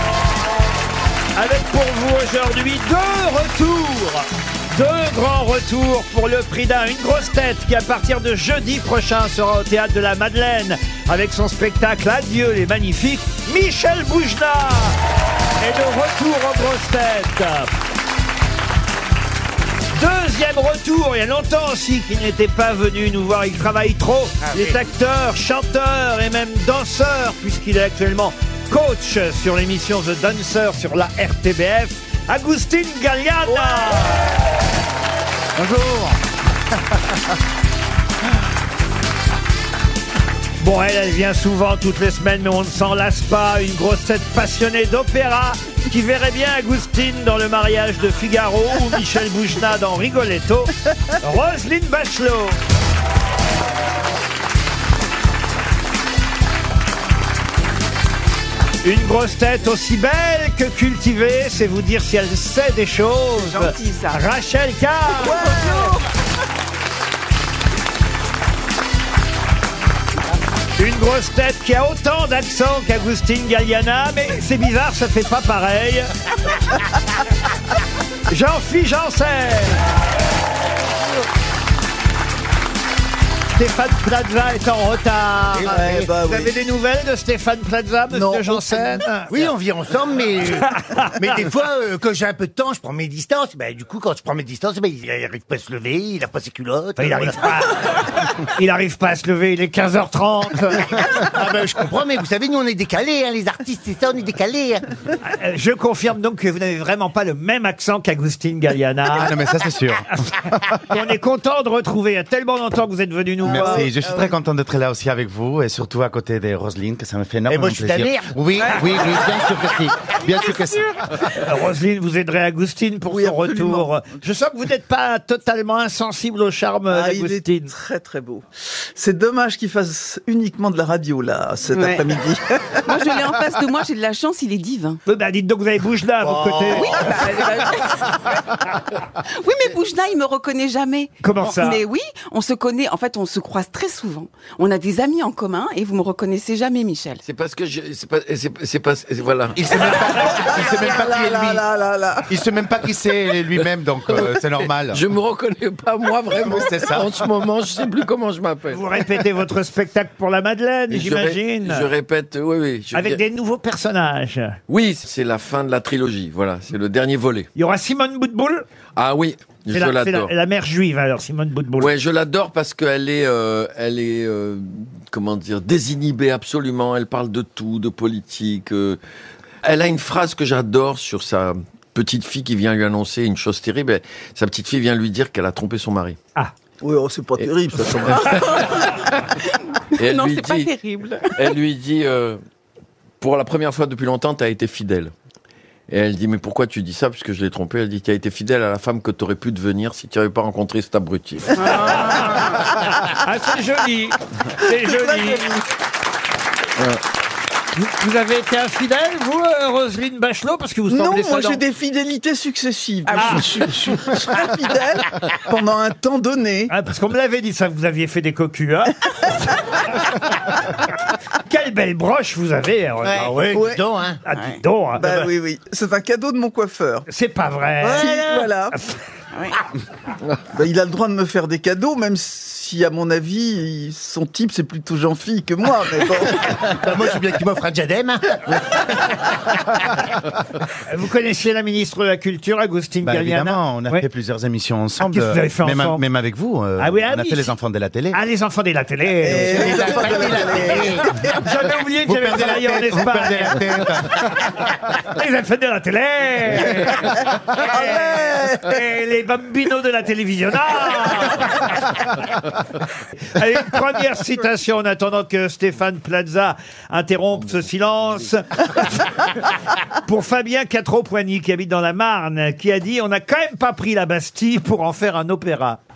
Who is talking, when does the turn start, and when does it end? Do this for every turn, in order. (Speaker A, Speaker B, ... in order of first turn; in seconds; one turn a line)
Speaker A: 1.3-14.9
Speaker A: 15.6-17.7
Speaker A: 19.9-34.3
Speaker B: 35.6-36.1
Speaker A: 40.6-52.6
Speaker A: 58.8-65.5
Speaker C: 63.3-64.2
Speaker D: 65.2-66.0
Speaker C: 65.2-66.0
Speaker A: 70.8-76.1
Speaker A: 78.3-79.8
Speaker A: 83.5-85.7
Speaker B: 85.5-86.1
Speaker D: 85.6-86.5
Speaker A: 86.2-89.4
Speaker D: 88.1-89.0
Speaker B: 89.3-97.5
Speaker A: 90.8-91.2
Speaker A: 97.0-101.0
Speaker B: 101.0-104.9
Speaker A: 105.2-109.3
Speaker E: 109.1-110.6
Speaker A: 110.1-113.9
Speaker E: 113.4-120.7
Speaker D: 113.4-114.3
Speaker B: 117.5-120.8
Speaker A: 121.2-127.7
Speaker D: 123.0-124.0
Speaker D: 126.9-133.2
Speaker C: 131.7-132.2
Speaker C: 132.8-135.0
Speaker A: 135.1-137.2
Speaker B: 136.2-137.2
Speaker C: 136.7-138.7
Speaker C: 139.3-147.2
Speaker A: 141.2-141.8
Speaker F: 147.2-149.7
Speaker E: 149.6-151.6
Speaker D: 149.8-152.3
Speaker E: 152.2-155.0
Speaker F: 153.5-159.0
Speaker E: 156.4-157.2
Speaker A: 158.7-161.9
Speaker F: 160.9-163.2
Speaker A: 162.9-164.6
Speaker F: 164.7-167.5
Speaker A: 167.5-168.6
Speaker F: 168.9-170.3
Speaker A: 169.7-171.9
Speaker F: 171.8-179.0
Speaker F: 179.6-186.2
Speaker D: 186.8-188.6
Speaker F: 187.4-189.1
Speaker C: 188.1-191.6
Speaker F: 189.9-190.8
Speaker F: 191.3-192.4
Speaker F: 193.2-195.1
Speaker F: 195.9-202.2
Speaker A: 201.6-205.4
Speaker D: 204.7-205.6
Speaker A: 207.7-211.6
Speaker D: 210.9-216.7
Speaker A: 213.1-213.6
Speaker A: 216.7-220.8
Speaker A: 221.4-223.5
Speaker B: 223.0-224.2
Speaker D: 223.5-223.8
Speaker A: 224.2-225.3
Speaker D: 225.0-227.1
Speaker A: 227.1-228.2
Speaker B: 227.8-228.4
Speaker D: 227.9-228.8
Speaker D: 230.5-236.9
Speaker B: 236.4-239.9
Speaker A: 240.8-244.1
Speaker E: 243.0-248.2
Speaker A: 245.1-246.0
Speaker A: 246.8-247.5
Speaker A: 248.1-250.2
Speaker D: 249.2-251.4
Speaker B: 249.3-251.1
Speaker E: 250.3-250.7
Speaker A: 251.3-262.1
Speaker E: 252.1-254.2
Speaker D: 257.7-258.7
Speaker A: 263.2-269.3
Speaker A: 269.9-275.8